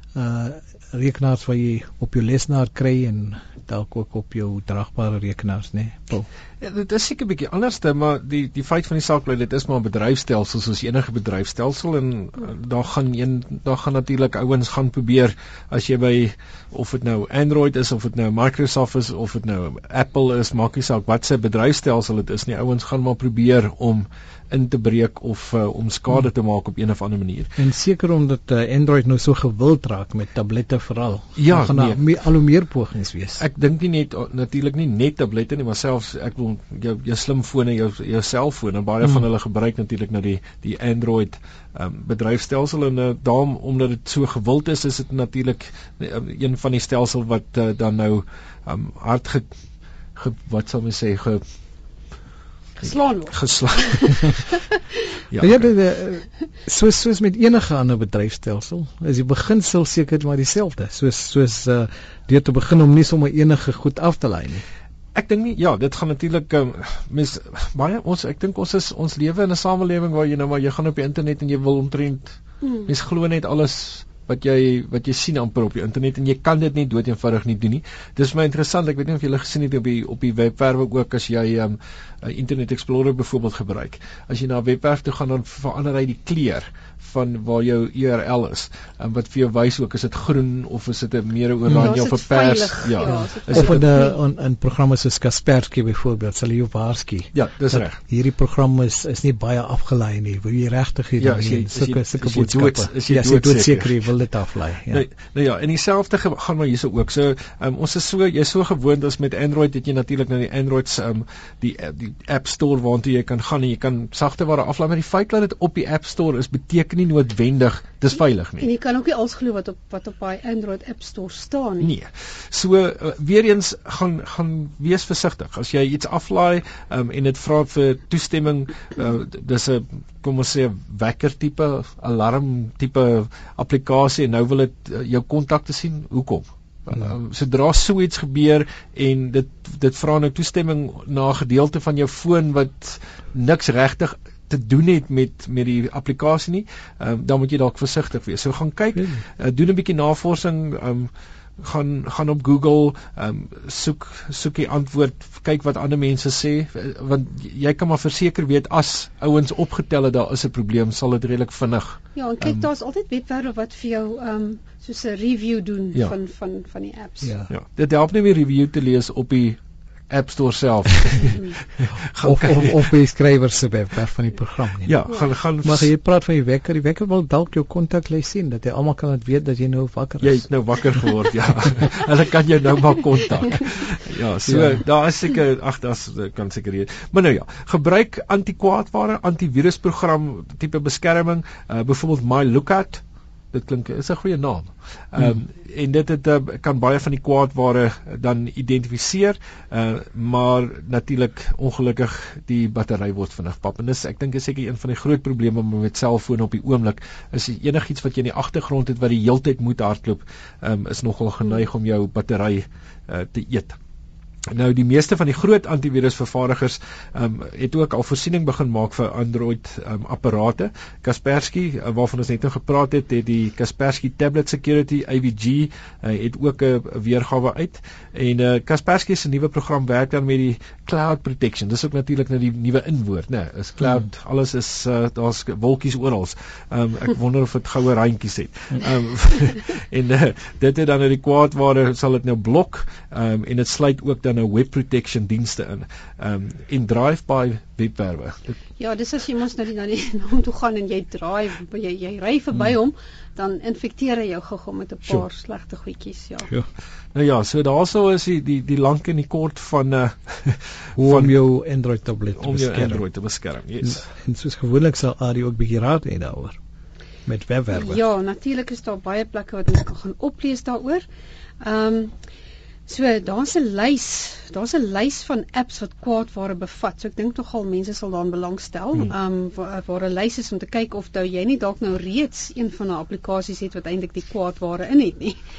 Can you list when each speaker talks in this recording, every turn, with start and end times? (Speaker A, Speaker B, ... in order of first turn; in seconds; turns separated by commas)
Speaker A: 0.1-6.3, Speaker B: 6.6-27.5, Speaker A: 27.6-33.4, Speaker B: 31.4-32.0, Speaker B: 33.4-49.5, Speaker B: 50.1-51.4, Speaker C: 52.8-54.5, Speaker B: 53.3-54.4, Speaker B: 55.3-55.7, Speaker A: 55.4-64.6, Speaker B: 65.1-93.8, Speaker A: 91.7-91.9, Speaker C: 91.8-94.2, Speaker A: 93.5-105.0, Speaker B: 97.3-98.0, Speaker B: 101.2-104.1, Speaker B: 104.9-118.7, Speaker C: 118.6-121.9, Speaker B: 121.8-162.7, Speaker C: 162.2-167.3, Speaker A: 167.2-167.5, Speaker B: 167.5-172.8, Speaker A: 172.2-175.0, Speaker B: 174.8-175.9, Speaker A: 175.6-180.5, Speaker B: 180.2-213.8, Speaker A: 184.5-184.8, Speaker B: 214.5-248.6, Speaker C: 248.8-256.5, Speaker B: 257.1-261.3, Speaker A: 261.0-263.1, Speaker B: 262.4-264.1, Speaker A: 263.8-266.6, Speaker A: 267.3-268.0, Speaker C: 267.7-271.0, Speaker C: 271.6-272.1, Speaker C: 272.9-285.4